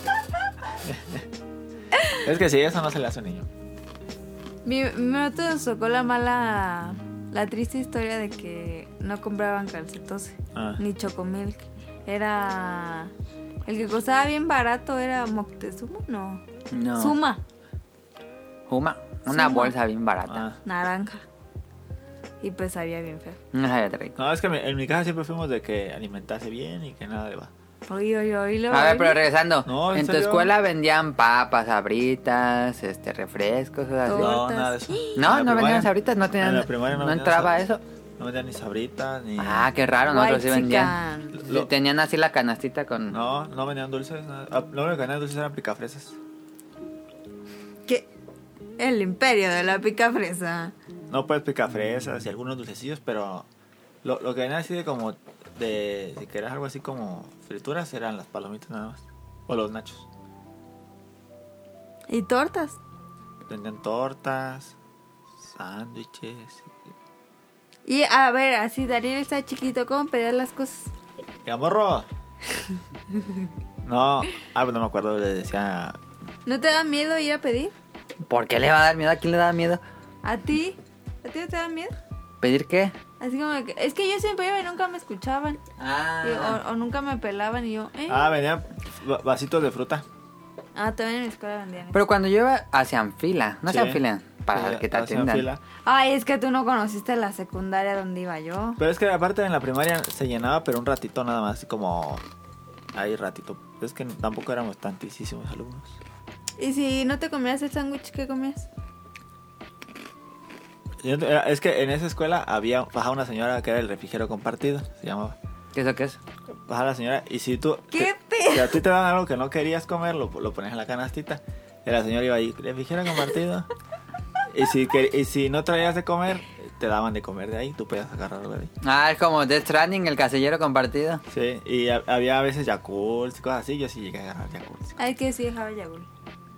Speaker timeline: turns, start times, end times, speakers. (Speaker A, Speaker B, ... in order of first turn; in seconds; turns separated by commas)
Speaker A: 0.8-1.2, Speaker A: 2.2-3.5, Speaker B: 4.6-13.1, Speaker A: 10.5-10.8, Speaker B: 13.7-16.4, Speaker C: 16.7-17.2, Speaker B: 17.0-17.4, Speaker C: 18.7-20.4, Speaker B: 19.3-19.7, Speaker A: 20.3-20.6, Speaker B: 20.6-21.2, Speaker B: 22.4-23.4, Speaker C: 23.5-24.2, Speaker A: 24.2-27.5, Speaker B: 27.9-29.2, Speaker C: 28.7-34.4, Speaker A: 29.6-30.5, Speaker B: 34.1-35.2, Speaker A: 34.1-37.6, Speaker C: 35.2-37.8, Speaker A: 38.2-39.7, Speaker C: 39.4-43.2, Speaker B: 40.1-41.4, Speaker A: 41.3-41.7, Speaker A: 43.1-46.2, Speaker B: 48.8-50.7, Speaker A: 51.1-53.5, Speaker A: 54.0-60.1, Speaker B: 62.1-62.8, Speaker A: 63.5-64.8, Speaker A: 65.4-66.7, Speaker B: 67.9-70.9, Speaker A: 71.5-72.1, Speaker A: 73.8-76.0, Speaker B: 76.5-77.7, Speaker C: 78.3-79.8, Speaker B: 80.2-82.0, Speaker C: 82.4-83.0, Speaker B: 83.2-85.6, Speaker C: 85.8-86.6, Speaker B: 86.2-88.4, Speaker A: 88.1-90.0, Speaker B: 90.7-92.0, Speaker C: 91.9-95.5, Speaker A: 93.7-95.6, Speaker B: 95.8-98.8, Speaker A: 98.8-102.2, Speaker A: 102.9-106.0, Speaker B: 106.6-108.7, Speaker A: 111.0-115.4, Speaker C: 115.7-116.2, Speaker A: 116.7-123.7, Speaker B: 117.9-118.8, Speaker A: 124.5-128.7, Speaker C: 128.8-131.2, Speaker A: 131.3-135.0, Speaker B: 135.0-136.1